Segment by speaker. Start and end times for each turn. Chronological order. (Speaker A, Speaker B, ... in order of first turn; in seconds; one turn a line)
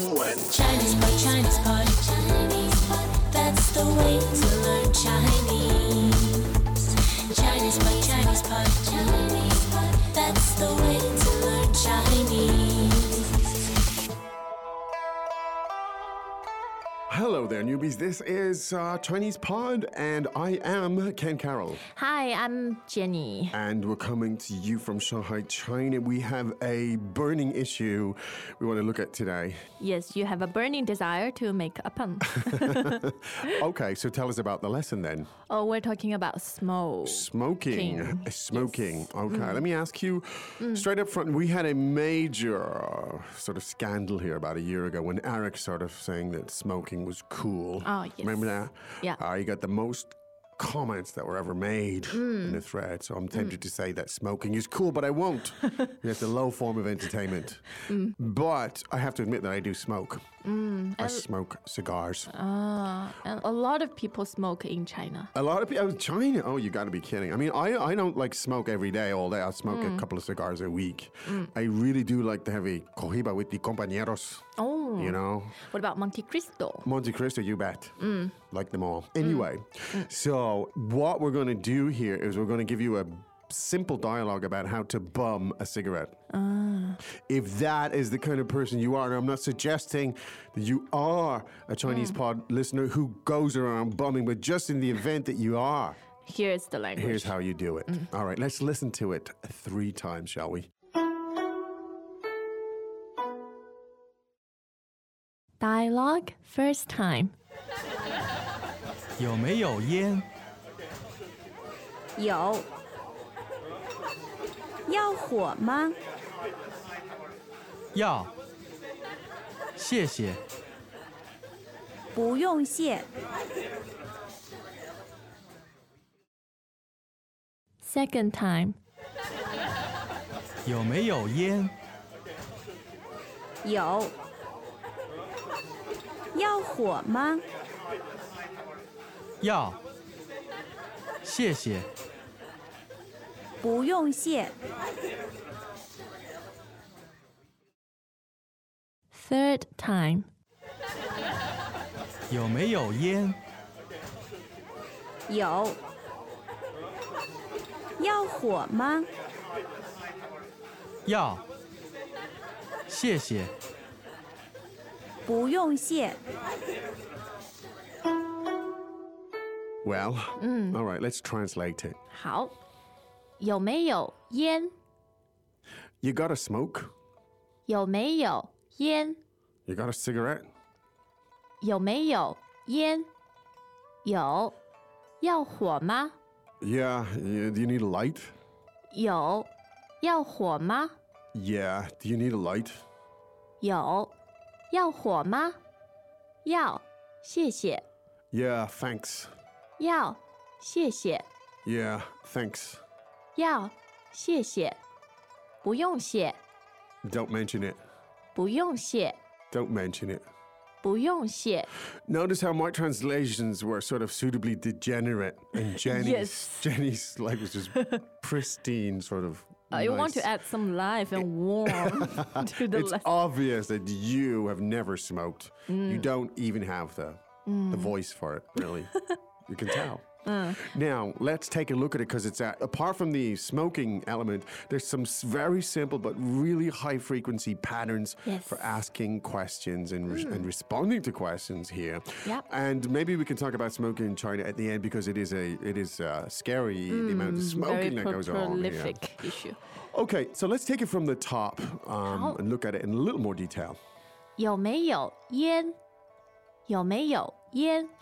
Speaker A: 0.5-2.1
Speaker A: 2.7-6.6
Speaker A: 7.3-13.2
Speaker B: 17.1-21.8
Speaker C: 21.9-23.6
Speaker B: 23.5-29.6
Speaker C: 29.8-33.5
Speaker B: 32.4-35.3
Speaker C: 35.5-39.6
Speaker B: 37.0-60.2
Speaker C: 40.6-40.9
Speaker C: 47.8-49.2
Speaker C: 52.1-52.6
Speaker C: 57.9-58.1
Speaker C: 60.4-61.2
Speaker B: 61.0-62.3
Speaker C: 62.3-65.3
Speaker B: 65.3-75.6
Speaker C: 69.7-70.0
Speaker C: 71.2-71.5
Speaker C: 74.6-76.9
Speaker B: 76.8-78.0
Speaker C: 78.0-78.3
Speaker B: 78.5-86.2
Speaker C: 79.2-80.1
Speaker C: 86.3-87.0
Speaker B: 87.1-96.0
Speaker C: 91.8-92.2
Speaker C: 96.2-97.3
Speaker B: 97.0-100.7
Speaker C: 105.6-107.3
Speaker D: 109.2-110.3
Speaker E: 112.2-112.7
Speaker E: 114.9-116.0
Speaker D: 117.9-118.3
Speaker D: 119.8-120.4
Speaker E: 122.1-123.1
Speaker C: 127.8-128.8
Speaker D: 130.7-131.7
Speaker E: 133.6-134.1
Speaker E: 136.3-137.4
Speaker D: 139.4-139.8
Speaker D: 141.2-141.9
Speaker E: 143.6-144.5
Speaker C: 149.1-150.3
Speaker D: 152.3-153.4
Speaker E: 155.3-155.8
Speaker E: 158.0-159.1
Speaker D: 161.1-161.4
Speaker D: 162.9-163.5
Speaker E: 165.2-166.2
Speaker B: 169.8-172.0
Speaker C: 170.4-170.8
Speaker C: 172.1-172.6
Speaker C: 173.4-174.7
Speaker B: 176.0-176.9
Speaker C: 177.7-179.2
Speaker B: 179.7-180.5
Speaker C: 181.6-183.1
Speaker C: 184.0-184.6
Speaker C: 185.2-186.2
Speaker B: 186.6-188.3
Speaker C: 188.9-189.5
Speaker C: 190.0-190.9
Speaker B: 191.3-192.8
Speaker C: 193.6-194.1
Speaker C: 194.7-195.6
Speaker C: 196.4-197.8
Speaker B: 198.3-199.3
Speaker C: 199.8-201.2
Speaker B: 201.6-202.8
Speaker C: 203.3-204.8
Speaker C: 205.6-206.4
Speaker B: 207.0-207.8
Speaker C: 208.3-209.2
Speaker B: 209.5-210.2
Speaker C: 210.8-211.7
Speaker B: 212.0-220.3
Speaker C: 215.7-216.7
Speaker C: 217.7-218.0
Speaker C: 219.7-223.1
Speaker B: 221.2-228.9
Speaker C: 225.7-226.1
Speaker C: 227.4-227.9
Speaker C: 228.6-229.1
Speaker B: 229.4-249.1
Speaker C: 230.2-230.7
Speaker C: 238.2-238.8
Speaker C: 240.1-240.5
Speaker C: 246.9-249.6
Speaker B: 249.8-253.8
Speaker C: 252.0-252.4
Speaker C: 254.4-255.7
Speaker C: 256.7-257.9